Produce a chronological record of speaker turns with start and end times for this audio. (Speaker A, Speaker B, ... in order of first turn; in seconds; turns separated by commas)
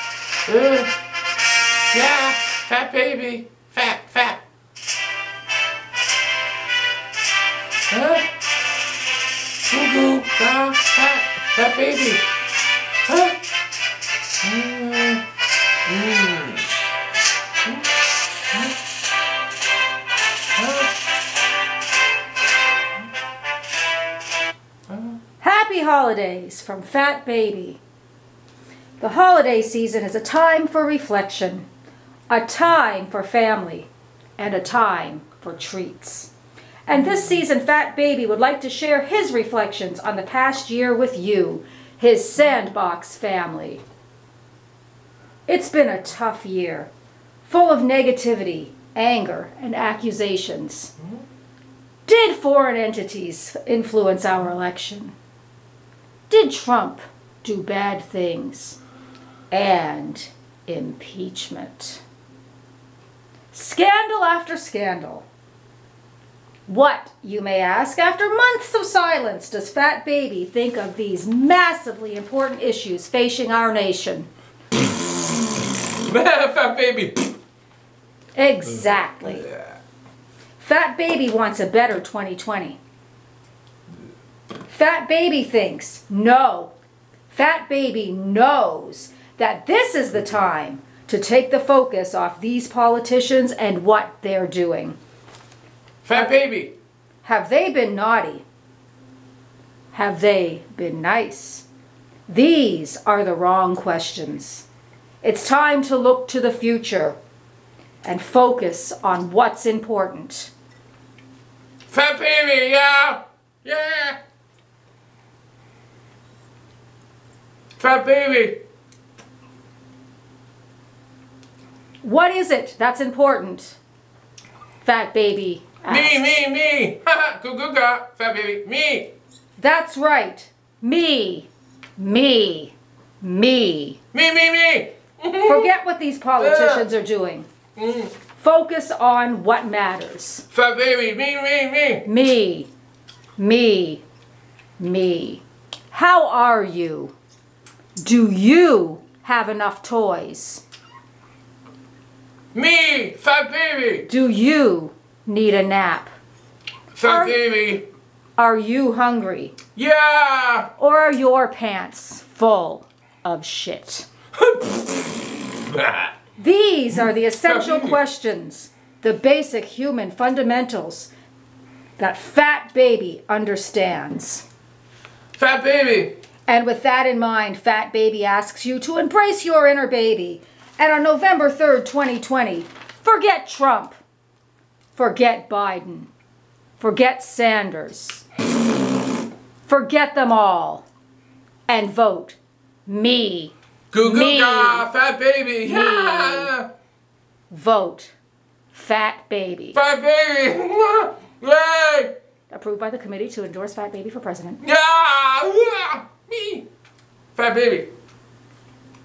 Speaker A: 0.5-0.9, Speaker A: 1.9-4.4, Speaker A: 7.9-8.3, Speaker A: 9.7-12.2, Speaker A: 13.1-13.4, Speaker A: 14.4-15.2, Speaker A: 15.8-16.7, Speaker A: 20.6-20.9, Speaker A: 24.9-25.1, Speaker B: 25.4-27.8, Speaker B: 29.0-31.7, Speaker B: 32.3-36.3, Speaker B: 36.9-43.8, Speaker B: 45.5-46.9, Speaker B: 47.5-50.9, Speaker B: 52.0-55.1, Speaker B: 56.3-58.8, Speaker B: 59.5-62.0, Speaker B: 63.5-65.2, Speaker B: 66.7-74.3, Speaker A: 76.0-77.3, Speaker B: 78.3-79.5, Speaker B: 80.6-82.8, Speaker B: 84.7-86.7, Speaker B: 87.3-95.0, Speaker A: 96.0-96.7, Speaker B: 97.2-98.4, Speaker B: 99.9-101.7, Speaker B: 102.3-104.7, Speaker B: 105.2-107.2, Speaker B: 108.0-110.5, Speaker A: 111.9-114.2, Speaker A: 117.8-118.6, Speaker B: 122.0-123.8, Speaker B: 124.8-126.4, Speaker A: 125.9-129.1, Speaker B: 129.6-134.0, Speaker A: 134.1-135.7, Speaker B: 135.4-137.5, Speaker A: 136.4-136.9, Speaker A: 137.8-138.1, Speaker B: 138.4-140.4, Speaker A: 140.5-142.1, Speaker B: 142.1-142.7, Speaker B: 143.4-144.0, Speaker B: 144.8-147.1, Speaker B: 148.0-150.6, Speaker A: 152.5-154.1, Speaker B: 154.1-156.1, Speaker A: 156.9-157.8, Speaker B: 157.0-157.4, Speaker B: 158.4-159.6, Speaker A: 159.8-160.7, Speaker B: 160.8-164.1, Speaker A: 164.4-164.8, Speaker A: 165.7-166.1, Speaker B: 166.4-171.1, Speaker A: 167.4-168.0, Speaker B: 172.0-174.5, Speaker A: 175.4-176.2, Speaker B: 176.5-184.0, Speaker B: 184.9-186.1, Speaker B: 186.8-188.2, Speaker B: 189.7-190.9, Speaker B: 191.7-194.9, Speaker A: 193.9-196.7, Speaker B: 195.7-196.5, Speaker B: 197.5-198.1, Speaker B: 198.7-199.8, Speaker A: 199.7-202.1, Speaker B: 202.5-204.6, Speaker A: 204.6-206.7, Speaker A: 207.3-207.9